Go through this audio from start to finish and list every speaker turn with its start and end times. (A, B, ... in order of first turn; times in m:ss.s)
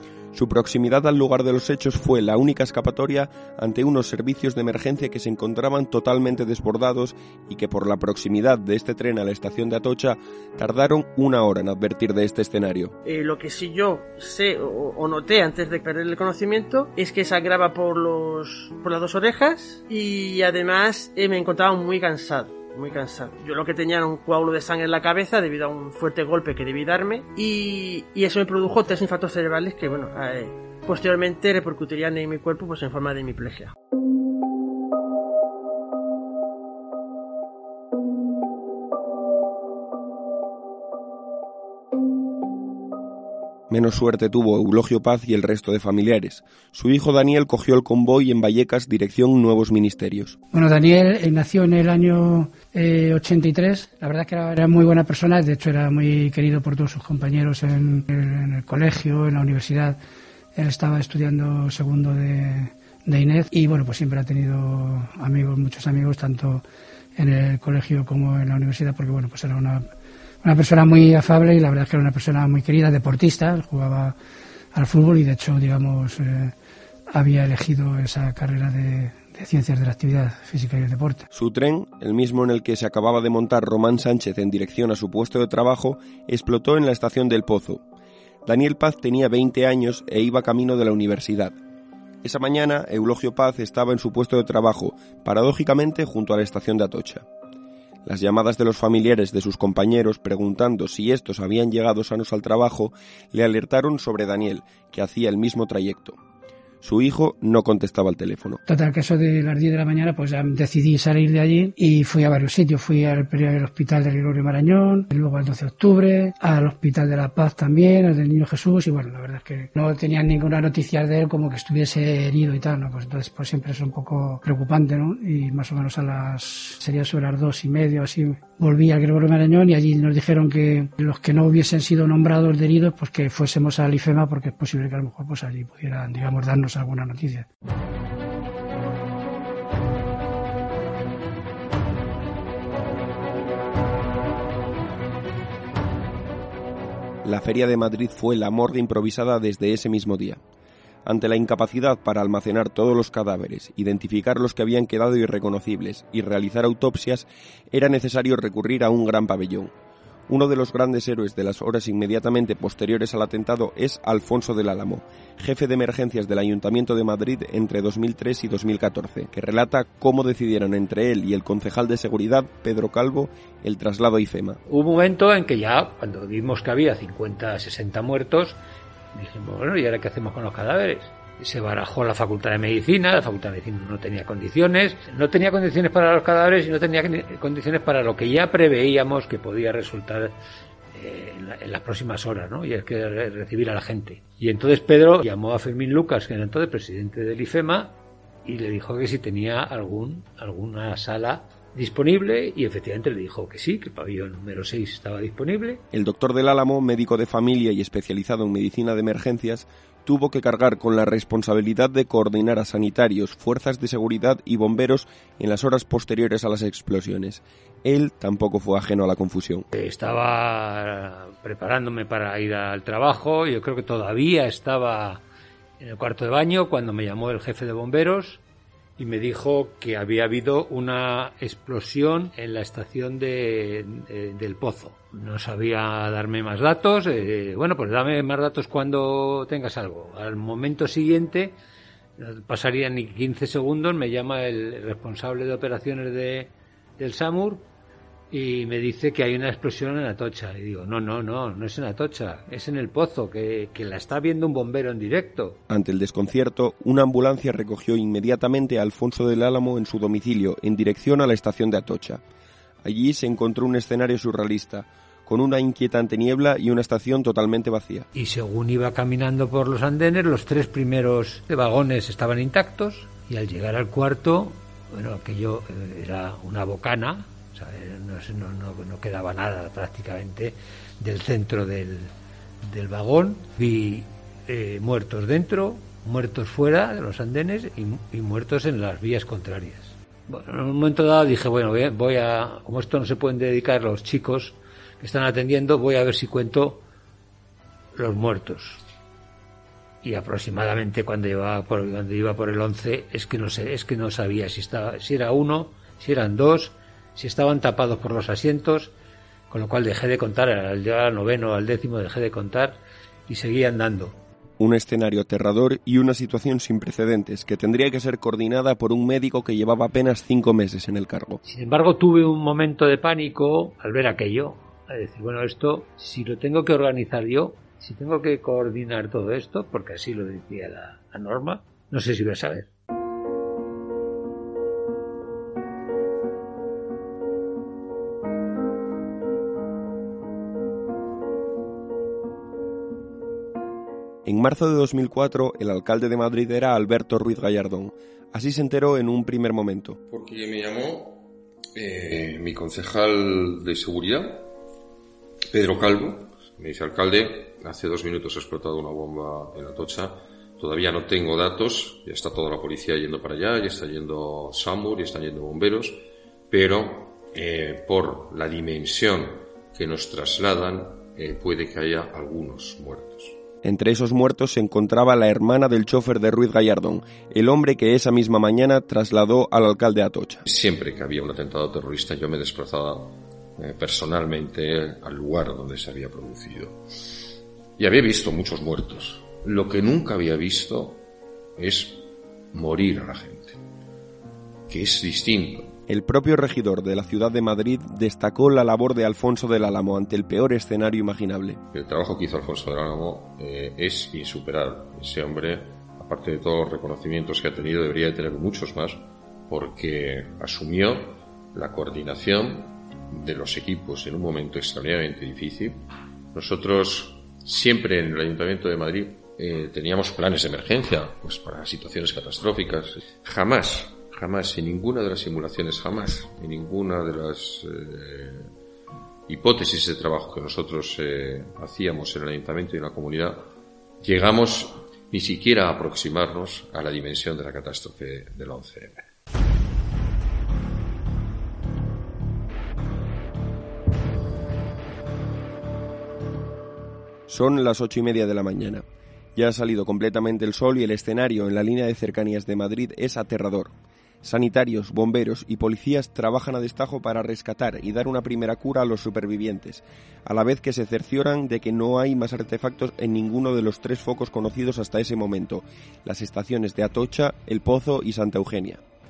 0:00.3-0:12.9 A
0:13.0-0:33.7 B
0:43.7-0:50.4 A
0:50.5-1:00.0 C
1:00.5-1:06.6 C
1:07.2-1:09.9 C
1:10.4-1:14.1 C
1:14.7-1:16.5 C
1:17.1-1:21.2 C
1:21.3-1:27.8 A
1:28.4-1:31.6 A
1:32.2-1:37.2 A
1:38.0-1:46.2 A
1:46.8-1:48.6 A
1:48.7-2:17.5 C
2:27.2-2:30.4 A
2:31.0-2:39.7 A
2:40.3-2:54.6 A
2:54.7-2:58.6 D
2:59.1-3:10.3 D
3:10.9-3:25.8 D
3:25.9-3:39.7 A
3:39.7-3:45.2 D
3:45.8-3:48.4 D
3:49.0-4:01.6 D
4:02.2-4:07.6 D
4:08.3-4:15.6 D
4:15.7-4:22.2 A
4:22.8-4:28.1 A
4:28.1-4:42.1 D
4:42.6-4:56.8 D
4:57.9-4:58.8 D
5:00.0-5:08.9 D
5:09.5-5:14.2 D
5:14.6-5:21.4 A
5:21.4-5:32.7 D
5:44.2-5:50.0 A
5:50.1-5:54.5 E
5:55.5-6:13.4 E
6:13.6-6:20.4 A
6:20.4-6:26.8 E
6:27.8-6:31.0 E
6:31.6-6:33.6 E
6:34.7-6:35.7 E
6:35.9-6:41.6 A
6:41.7-7:08.5 E
7:09.3-7:13.5 E
7:14.0-7:19.1 E
7:27.3-7:48.8 A